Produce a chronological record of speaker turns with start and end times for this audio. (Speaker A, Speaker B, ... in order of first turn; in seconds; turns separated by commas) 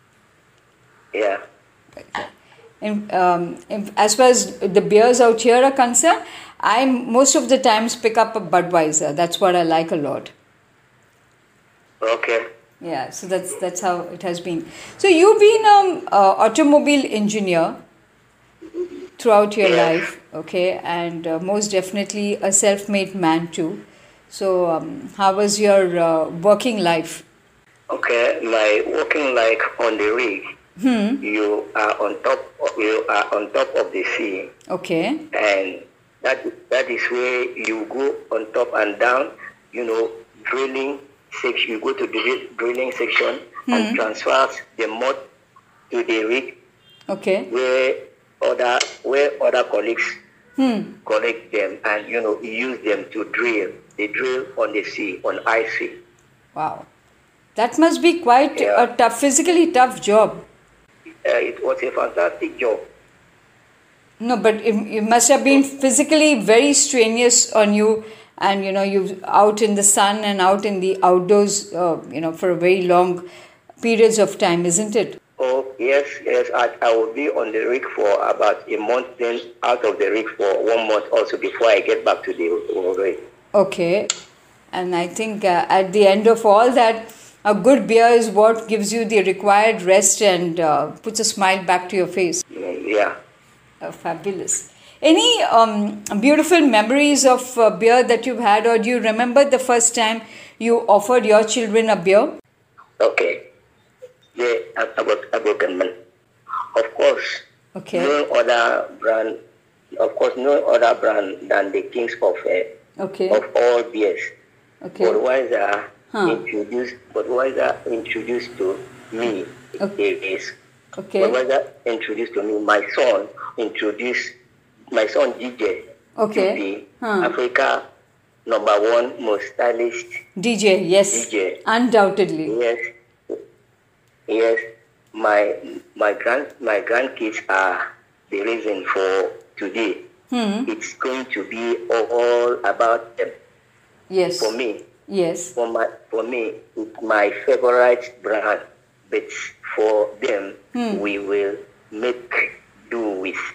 Speaker A: 1.1-1.4, Speaker B: 2.8-10.3, Speaker A: 12.0-12.4, Speaker B: 12.8-17.8, Speaker B: 19.2-27.2, Speaker A: 19.6-20.0, Speaker A: 27.9-30.4, Speaker B: 30.8-31.2, Speaker A: 31.2-34.5, Speaker B: 34.7-35.2, Speaker A: 35.3-45.2, Speaker B: 43.7-44.0, Speaker A: 45.9-46.5, Speaker B: 47.1-47.5, Speaker A: 47.5-50.2, Speaker B: 50.6-50.9, Speaker A: 51.0-56.0, Speaker B: 56.5-56.9, Speaker B: 57.5-60.5, Speaker A: 58.5-58.9, Speaker A: 61.2-62.9, Speaker B: 64.2-73.3, Speaker B: 73.8-75.2, Speaker A: 75.4-83.2, Speaker B: 83.5-84.1, Speaker B: 84.7-92.4, Speaker A: 92.5-93.1, Speaker B: 93.8-102.3, Speaker A: 103.0-103.4, Speaker A: 104.3-105.9, Speaker A: 106.7-109.4, Speaker B: 107.7-108.1, Speaker A: 110.0-112.7, Speaker B: 113.0-113.4, Speaker A: 113.3-114.3, Speaker B: 114.8-115.2, Speaker A: 115.0-120.5, Speaker B: 116.1-116.4, Speaker B: 121.0-121.3, Speaker A: 121.2-124.3, Speaker A: 124.9-125.8, Speaker B: 126.2-127.3, Speaker A: 126.3-127.8, Speaker A: 128.4-130.2, Speaker B: 130.4-132.5, Speaker A: 131.1-131.6, Speaker A: 132.5-132.8, Speaker A: 134.3-134.6, Speaker A: 135.1-140.0, Speaker B: 140.3-140.7, Speaker A: 140.7-143.3, Speaker B: 144.1-144.5, Speaker A: 144.4-144.8, Speaker B: 145.1-145.5, Speaker A: 145.6-153.4, Speaker B: 150.7-151.0